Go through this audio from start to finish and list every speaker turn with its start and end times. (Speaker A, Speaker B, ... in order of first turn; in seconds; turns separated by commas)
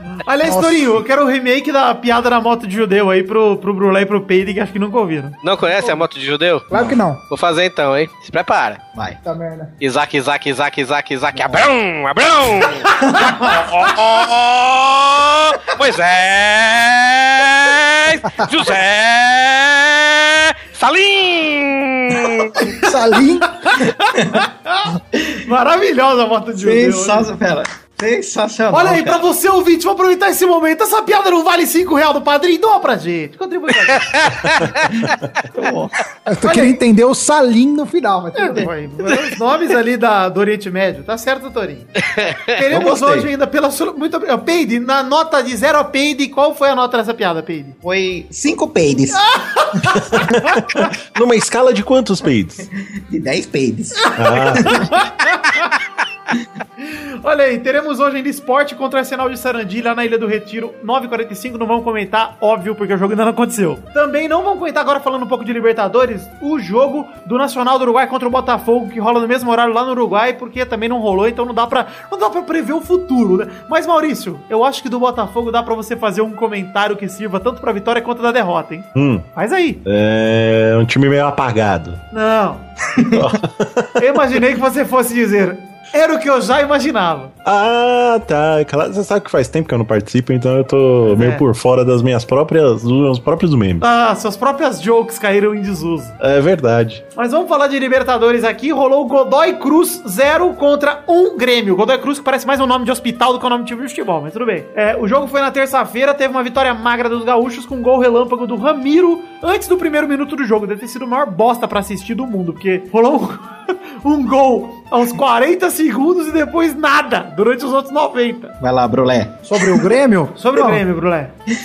Speaker A: 0.2-6.0, Speaker B: 0.4-0.9, Speaker C: 5.4-6.7, Speaker B: 6.7-7.2, Speaker C: 7.3-8.8, Speaker B: 9.2-9.7, Speaker C: 9.8-22.7, Speaker D: 13.1-13.6, Speaker B: 22.8-23.5, Speaker A: 23.6-24.9, Speaker D: 24.1-24.4, Speaker D: 25.0-25.4, Speaker A: 25.4-27.3, Speaker D: 26.6-29.2, Speaker A: 28.7-34.1, Speaker C: 34.0-34.8, Speaker D: 35.5-36.0, Speaker B: 36.2-38.7, Speaker A: 36.4-36.8, Speaker A: 38.4-47.8, Speaker D: 42.7-43.3, Speaker D: 47.8-49.4, Speaker A: 49.2-50.8, Speaker E: 50.1-52.7, Speaker D: 53.1-54.9, Speaker E: 54.1-54.7, Speaker A: 54.2-55.7, Speaker A: 56.8-79.8, Speaker E: 78.9-79.2, Speaker E: 79.8-82.0, Speaker A: 82.1-82.7, Speaker D: 82.9-83.4, Speaker E: 83.1-83.9, Speaker A: 84.0-87.3, Speaker E: 87.4-93.8, Speaker A: 91.0-91.4, Speaker A: 93.8-96.1, Speaker E: 96.2-97.0, Speaker A: 97.2-113.5, Speaker A: 114.0-118.5, Speaker D: 118.6-119.4, Speaker B: 119.5-120.8, Speaker A: 120.4-121.3